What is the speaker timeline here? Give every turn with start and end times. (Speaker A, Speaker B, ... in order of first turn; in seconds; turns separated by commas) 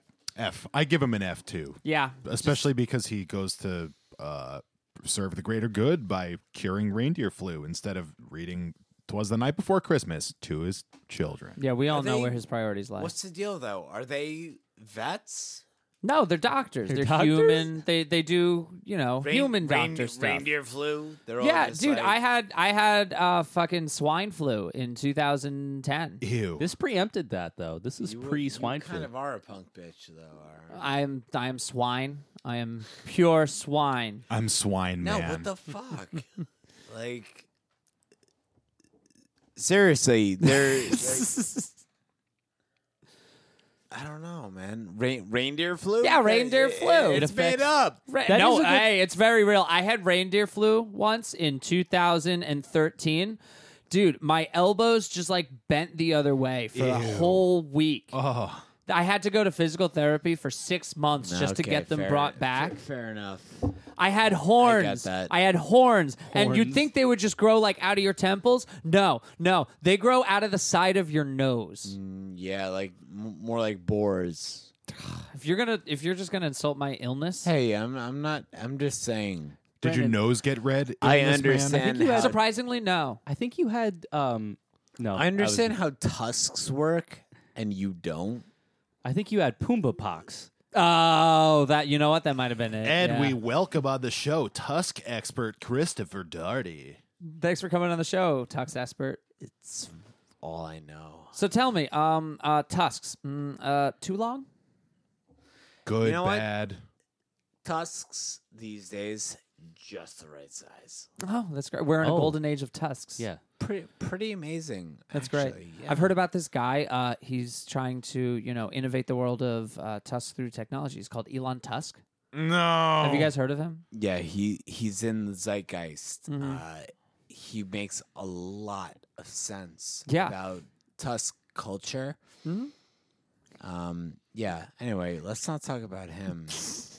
Speaker A: 0.4-11.6, Speaker B: 1.8-2.6, Speaker B: 11.6-13.1, Speaker C: 11.9-12.4, Speaker C: 13.0-15.6, Speaker B: 16.0-20.5, Speaker D: 16.9-17.7, Speaker C: 19.2-22.2, Speaker B: 21.4-26.2, Speaker A: 26.2-26.6, Speaker D: 26.6-29.1, Speaker C: 28.0-30.9, Speaker B: 30.7-34.2, Speaker A: 34.3-35.5, Speaker C: 35.0-36.3, Speaker C: 36.9-37.5, Speaker C: 39.6-41.3, Speaker B: 40.5-41.7, Speaker C: 43.9-48.0, Speaker B: 46.0-58.2, Speaker D: 48.3-48.9, Speaker A: 56.7-57.5, Speaker A: 58.1-58.7, Speaker B: 58.9-62.8, Speaker C: 61.2-63.7, Speaker B: 64.0-72.0, Speaker C: 64.6-65.3, Speaker D: 66.3-66.8, Speaker C: 71.8-75.2, Speaker B: 75.3-77.5, Speaker C: 77.4-79.6, Speaker D: 79.8-80.2, Speaker A: 79.8-81.9, Speaker C: 81.0-82.4, Speaker D: 81.7-82.4, Speaker B: 82.0-83.2, Speaker D: 83.3-85.7, Speaker C: 85.1-88.5, Speaker D: 89.0-90.5, Speaker B: 90.7-93.4, Speaker A: 92.8-97.0, Speaker B: 97.2-99.2, Speaker C: 99.4-101.3, Speaker B: 101.3-104.5, Speaker A: 105.9-106.8, Speaker C: 106.0-106.5, Speaker C: 107.6-111.1, Speaker B: 111.2-113.2, Speaker D: 112.0-112.4, Speaker C: 113.6-116.2, Speaker B: 115.1-122.0, Speaker A: 122.3-123.3, Speaker B: 123.0-123.8, Speaker C: 123.9-132.2, Speaker B: 126.3-126.6, Speaker B: 130.1-130.4, Speaker B: 132.4-132.7, Speaker C: 133.6-136.8